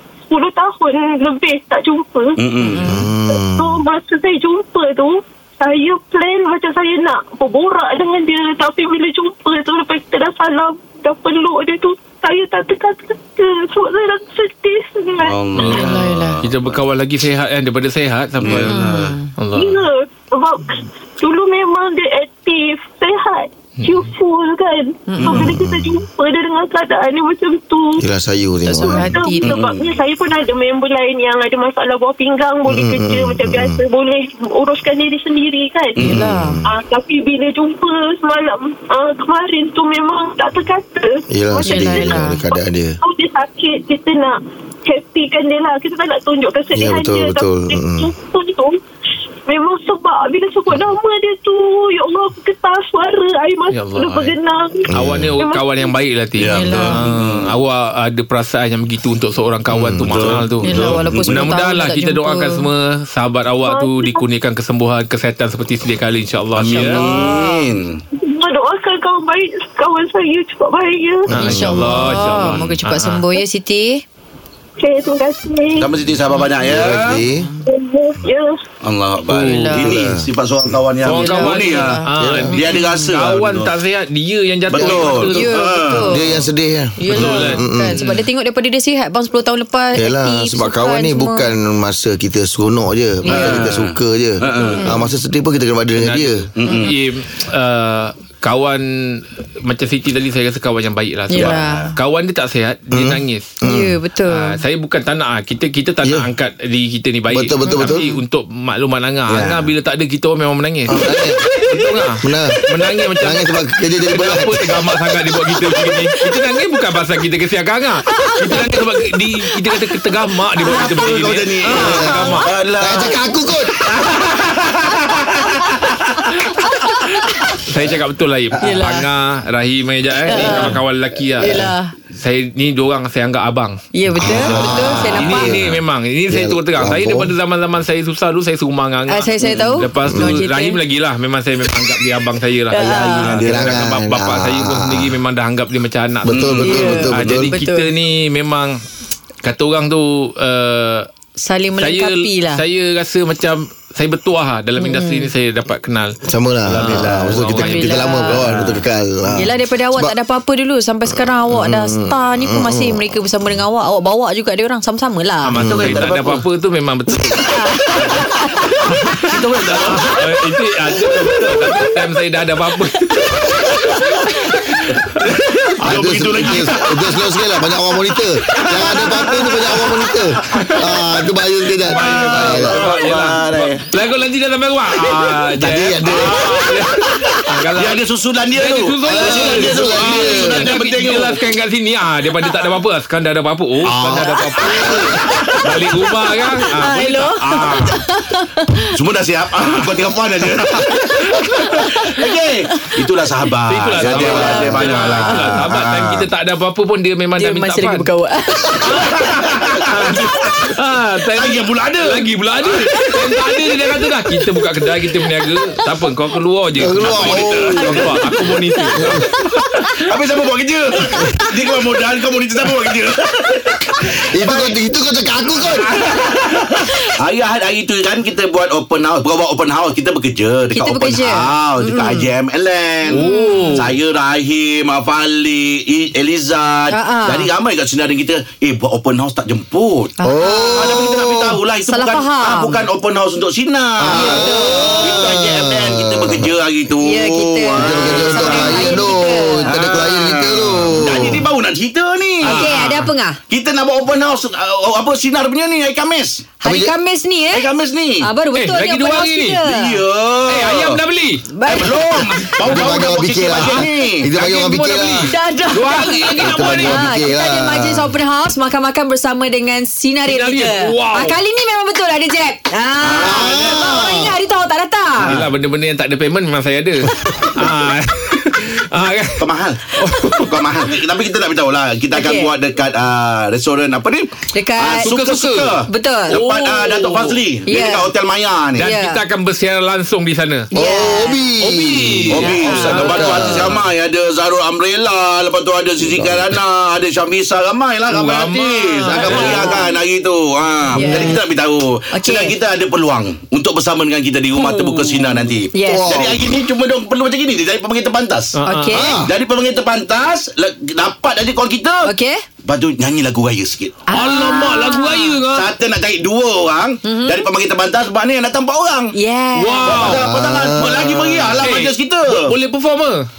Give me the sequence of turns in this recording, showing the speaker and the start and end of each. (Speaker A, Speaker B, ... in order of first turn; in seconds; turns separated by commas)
Speaker A: 0.3-2.4, Speaker B: 2.4-3.1, Speaker C: 2.6-3.1, Speaker D: 2.8-3.8, Speaker A: 3.6-15.7, Speaker B: 15.2-16.8, Speaker E: 15.6-19.8, Speaker C: 15.6-16.4, Speaker B: 18.4-19.2, Speaker C: 18.5-19.3, Speaker A: 19.8-27.9, Speaker C: 25.1-25.5, Speaker B: 25.2-25.6, Speaker D: 25.3-26.0, Speaker D: 28.0-29.2, Speaker C: 28.7-29.7, Speaker A: 28.8-36.0, Speaker B: 29.4-30.0, Speaker D: 32.7-33.8, Speaker C: 36.0-36.6, Speaker B: 36.0-36.4, Speaker D: 36.0-36.6, Speaker A: 36.7-44.3, Speaker D: 41.3-43.0, Speaker C: 41.6-42.4, Speaker A: 44.9-48.7, Speaker D: 46.7-48.1, Speaker A: 49.5-53.7, Speaker E: 53.7-54.4, Speaker A: 54.3-54.9, Speaker D: 54.9-55.4, Speaker E: 54.9-67.1, Speaker A: 55.4-55.7, Speaker B: 56.4-57.5, Speaker C: 56.5-57.1, Speaker D: 59.7-60.3, Speaker B: 60.0-61.5, Speaker C: 60.6-62.7, Speaker A: 63.7-64.1, Speaker B: 66.6-68.0, Speaker C: 66.7-67.7, Speaker A: 68.2-71.3, Speaker E: 71.3-73.3, Speaker D: 71.3-72.0, Speaker C: 71.3-74.0, Speaker A: 74.8-75.8, Speaker B: 75.8-77.3, Speaker D: 76.6-77.5, Speaker E: 76.8-77.2, Speaker C: 77.3-77.6, Speaker A: 77.7-78.6, Speaker B: 78.8-82.0, Speaker C: 79.3-80.1, Speaker D: 79.8-80.2, Speaker E: 81.0-85.5, Speaker C: 81.1-83.1, Speaker D: 82.2-82.6, Speaker B: 82.5-83.7, Speaker B: 84.7-86.2, Speaker C: 84.8-86.5, Speaker D: 86.0-88.0, Speaker C: 87.0-91.5, Speaker E: 87.1-88.3, Speaker D: 90.0-96.5, Speaker C: 93.2-93.7, Speaker B: 93.3-94.9, Speaker C: 94.6-95.1, Speaker E: 96.0-103.6, Speaker B: 96.6-97.0, Speaker C: 96.7-97.0, Speaker C: 101.3-102.0, Speaker B: 101.3-101.9, Speaker D: 102.9-104.0, Speaker C: 103.6-104.6, Speaker E: 104.3-111.0, Speaker D: 107.3-108.1, Speaker C: 107.7-108.2, Speaker B: 109.3-109.7, Speaker D: 110.9-111.4, Speaker C: 111.0-112.1, Speaker E: 111.7-122.5, Speaker D: 112.2-112.6, Speaker D: 113.2-114.8, Speaker C: 115.5-116.6, Speaker C: 118.1-119.1, Speaker B: 120.6-123.2, Speaker D: 121.7-123.7, Speaker C: 122.0-122.4, Speaker B: 123.9-125.9, Speaker E: 127.6-146.5, Speaker C: 128.6-129.1, Speaker C: 130.2-130.8, Speaker C: 131.4-131.9, Speaker C: 133.9-135.6, Speaker D: 134.2-137.3, Speaker C: 139.1-140.8, Speaker B: 139.4-139.7, Speaker D: 140.1-140.4, Speaker C: 142.7-143.4, Speaker D: 142.8-145.1, Speaker B: 142.8-143.8, Speaker D: 146.2-147.6, Speaker B: 146.3-147.1, Speaker C: 146.6-147.9, Speaker E: 147.1-148.8, Speaker E: 149.4-151.1, Speaker C: 151.4-152.6, Speaker E: 151.8-156.2, Speaker C: 154.8-155.3, Speaker D: 156.2-160.2, Speaker B: 156.7-158.8, Speaker E: 156.7-157.8, Speaker C: 157.6-158.5, Speaker C: 159.3-165.6, Speaker D: 161.1-163.3, Speaker E: 165.4-167.5, Speaker B: 165.6-166.4, Speaker D: 165.6-166.0, Speaker C: 167.3-168.7, Speaker B: 168.0-171.8, Speaker E: 169.0-175.2, Speaker B: 173.4-174.3, Speaker B: 175.2-181.0, Speaker D: 175.8-182.8, Speaker E: 180.5-181.1, Speaker B: 181.9-183.8, Speaker E: 181.9-198.0, Speaker B: 185.1-191.4, Speaker D: 185.7-186.5, Speaker D: 189.0-190.7, Speaker B: 193.8-194.2, Speaker D: 193.9-195.1, Speaker C: 194.6-195.1, Speaker B: 195.2-195.7, Speaker C: 196.3-199.0, Speaker B: 198.9-201.0, Speaker C: 200.5-205.7, Speaker E: 201.3-201.8, Speaker B: 201.7-206.3, Speaker E: 203.7-208.1, Speaker C: 207.4-209.4, Speaker E: 208.8-220.0, Speaker C: 210.1-210.7, Speaker B: 211.3-212.8, Speaker C: 212.8-214.6, Speaker C: 215.3-215.8, Speaker D: 216.8-218.1, Speaker B: 217.1-217.9, Speaker C: 218.0-220.0, Speaker B: 220.1-224.8, Speaker C: 221.0-221.6, Speaker D: 224.3-225.9, Speaker B: 226.0-240.2, Speaker C: 230.7-232.3, Speaker E: 233.1-233.9, Speaker C: 233.1-233.9, Speaker C: 236.9-237.5, Speaker C: 240.2-241.2, Speaker D: 240.2-241.4, Speaker B: 240.7-252.7, Speaker C: 241.7-242.8, Speaker D: 244.0-246.5, Speaker C: 244.1-245.3, Speaker C: 246.9-249.7, Speaker D: 247.8-251.4, Speaker E: 250.7-251.4, Speaker C: 252.4-253.4, Speaker E: 252.4-253.1, Speaker B: 253.5-256.5, Speaker C: 256.6-257.7, Speaker D: 256.6-256.9, Speaker B: 257.5-258.2, Speaker C: 258.2-260.1, Speaker E: 258.5-259.6, Speaker B: 259.6-261.0, Speaker E: 260.5-262.5, Speaker C: 261.5-262.8, Speaker B: 261.6-264.3, Speaker D: 262.7-265.3, Speaker E: 263.6-267.1, Speaker C: 265.2-275.4, Speaker D: 266.4-268.1, Speaker E: 270.2-271.4, Speaker B: 273.0-274.0, Speaker D: 273.3-274.4, Speaker B: 275.2-275.5, Speaker E: 275.2-280.6, Speaker B: 279.4-288.9, Speaker C: 282.1-282.5, Speaker C: 284.5-285.1, Speaker E: 285.0-285.8, Speaker C: 285.9-288.1, Speaker E: 286.3-286.6, Speaker C: 288.8-289.2, Speaker E: 288.8-290.7, Speaker C: 290.7-291.5, Speaker D: 290.8-293.8, Speaker E: 291.6-293.8, Speaker B: 292.3-308.6, Speaker C: 292.4-293.4, Speaker D: 296.0-296.4, Speaker E: 298.1-299.8, Speaker C: 299.1-299.9, Speaker C: 300.9-301.4, Speaker C: 302.1-302.6, Speaker E: 304.6-305.5, Speaker C: 305.7-306.1, Speaker D: 305.9-306.4, Speaker E: 308.6-309.1, Speaker C: 308.6-309.2, Speaker D: 308.9-309.3, Speaker B: 309.2-312.1, Speaker C: 312.0-312.4, Speaker B: 312.7-314.0, Speaker C: 314.1-315.4, Speaker E: 314.1-315.7, Speaker B: 315.5-319.1, Speaker C: 317.0-317.5, Speaker C: 319.1-320.1, Speaker E: 319.6-320.3, Speaker B: 319.8-322.5, Speaker D: 320.0-321.6, Speaker E: 321.6-323.2